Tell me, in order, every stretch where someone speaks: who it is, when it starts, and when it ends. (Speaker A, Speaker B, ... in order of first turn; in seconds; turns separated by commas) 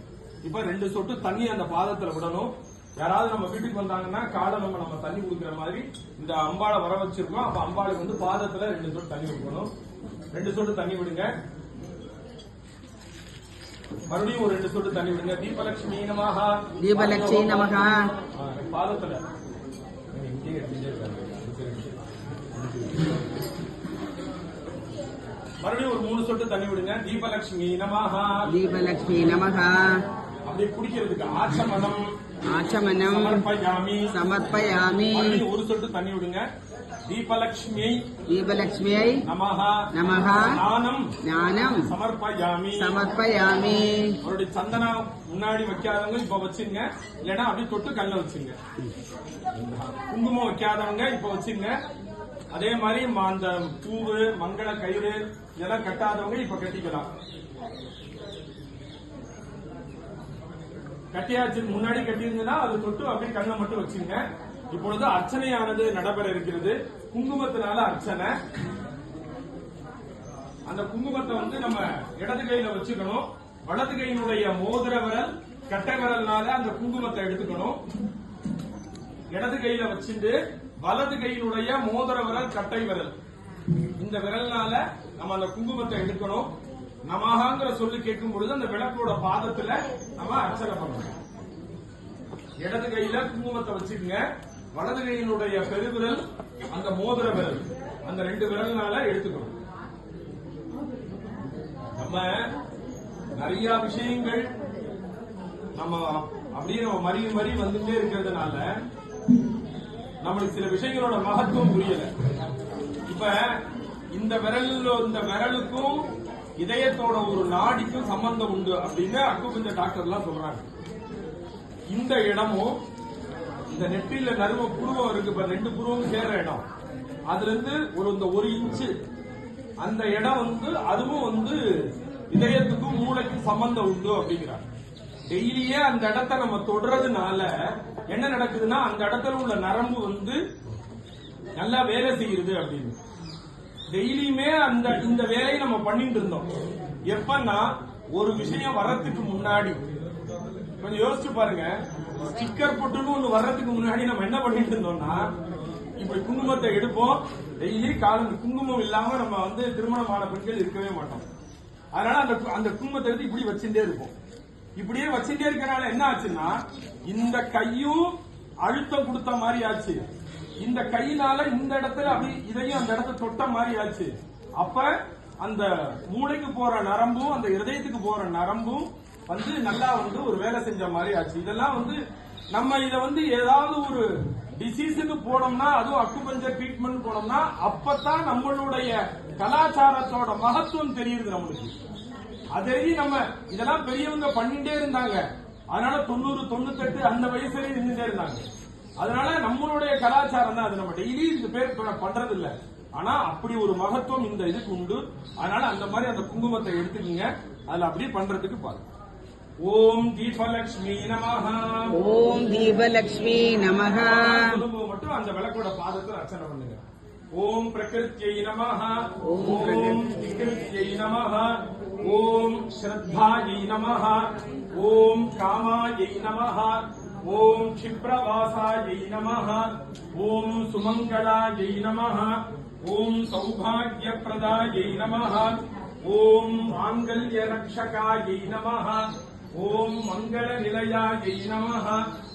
Speaker A: 0.4-9.7, Speaker A: 10.3-11.3, Speaker A: 14.1-17.8, Speaker B: 16.8-18.0, Speaker A: 18.3-19.2, Speaker A: 20.1-22.0, Speaker A: 22.6-23.0, Speaker A: 25.6-28.5, Speaker B: 28.5-30.0, Speaker A: 30.4-32.1, Speaker B: 32.5-33.5, Speaker A: 33.0-34.2, Speaker B: 34.1-35.4, Speaker A: 35.1-36.4, Speaker A: 37.1-38.0, Speaker B: 38.3-39.2, Speaker A: 39.2-41.1, Speaker B: 39.9-40.6, Speaker B: 41.2-41.9, Speaker A: 41.8-43.0, Speaker B: 42.8-44.2, Speaker A: 44.2-48.5, Speaker A: 49.5-51.7, Speaker A: 52.5-57.1, Speaker A: 61.1-68.3, Speaker A: 70.7-77.8, Speaker A: 79.3-83.2, Speaker A: 84.0-86.5, Speaker A: 87.0-91.1, Speaker A: 92.6-99.5, Speaker A: 102.0-102.5, Speaker A: 103.4-104.5, Speaker A: 105.8-108.7, Speaker A: 110.2-112.1, Speaker A: 113.1-113.5, Speaker A: 114.1-116.0, Speaker A: 116.6-120.6, Speaker A: 121.9-122.8, Speaker A: 123.7-126.6, Speaker A: 127.3-128.9, Speaker A: 129.8-131.6, Speaker A: 132.3-134.6, Speaker A: 135.3-140.4, Speaker A: 141.6-143.0, Speaker A: 143.9-146.5, Speaker A: 147.1-149.8, Speaker A: 150.8-155.2, Speaker A: 156.0-161.2, Speaker A: 161.9-164.1, Speaker A: 164.8-166.6, Speaker A: 167.1-168.1, Speaker A: 168.6-170.1, Speaker A: 170.6-174.9, Speaker A: 175.4-182.0, Speaker A: 182.5-191.7, Speaker A: 192.5-198.4, Speaker A: 199.0-208.8, Speaker A: 209.6-211.9, Speaker B: 211.9-214.6, Speaker A: 214.0-216.8, Speaker A: 217.3-242.0, Speaker B: 219.2-220.1